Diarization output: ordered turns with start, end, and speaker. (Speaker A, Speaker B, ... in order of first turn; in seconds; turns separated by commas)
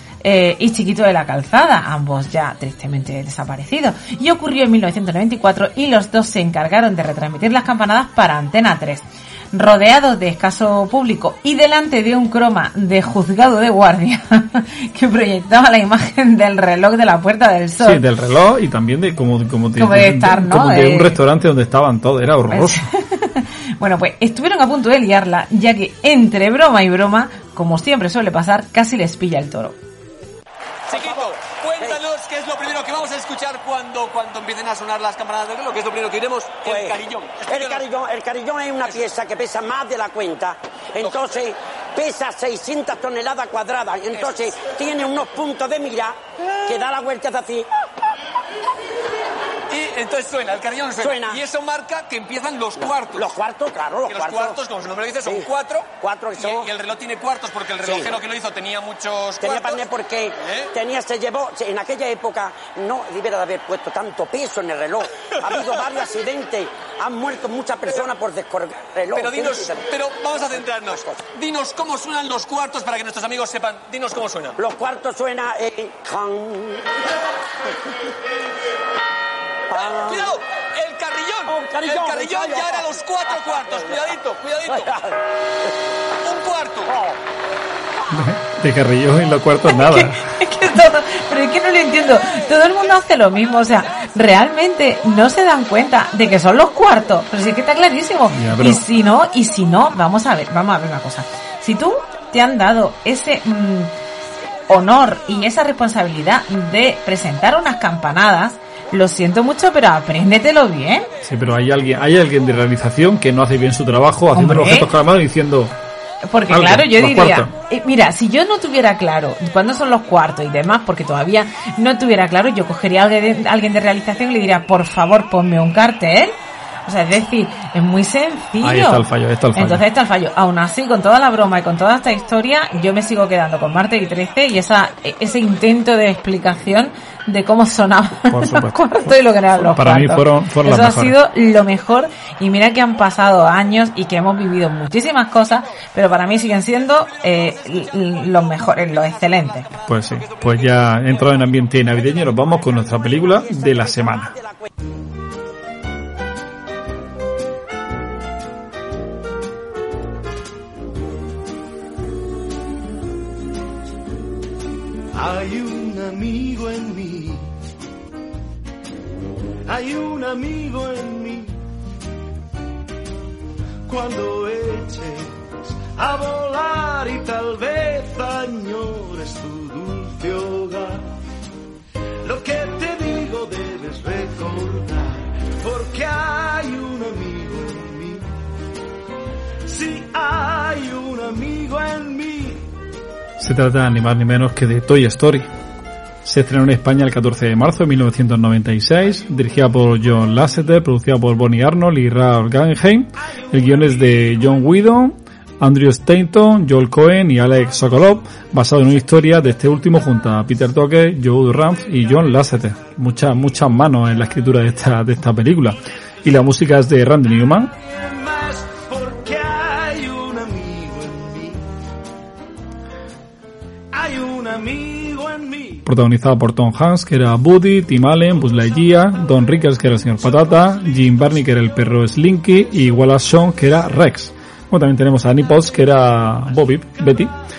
Speaker A: 0.2-18.0, Speaker B: 17.8-22.9, Speaker A: 19.8-21.2, Speaker A: 22.5-29.8, Speaker C: 30.9-37.8, Speaker D: 36.6-47.7, Speaker C: 49.7-53.3, Speaker D: 51.0-51.4, Speaker D: 53.1-54.6, Speaker C: 54.1-59.8, Speaker D: 56.0-56.7, Speaker D: 59.4-69.9, Speaker C: 60.4-60.7, Speaker C: 69.1-74.6, Speaker D: 74.6-76.9, Speaker D: 79.7-80.3, Speaker C: 79.8-84.9, Speaker D: 81.5-82.9, Speaker D: 84.7-85.1, Speaker C: 86.2-86.9, Speaker B: 88.1-90.4, Speaker A: 89.7-103.9, Speaker B: 98.3-98.8, Speaker A: 104.7-111.1, Speaker B: 111.2-115.7, Speaker A: 114.3-114.9, Speaker A: 116.2-149.7, Speaker B: 116.5-117.5, Speaker B: 128.6-129.8, Speaker B: 138.3-141.2, Speaker B: 149.9-154.3, Speaker D: 153.4-154.6, Speaker E: 165.1-167.5, Speaker E: 169.7-171.6, Speaker E: 173.9-181.1, Speaker E: 182.2-188.3, Speaker E: 189.7-192.7, Speaker B: 193.4-195.5, Speaker B: 196.2-217.7, Speaker E: 217.9-221.7, Speaker E: 223.9-225.8, Speaker B: 225.9-237.3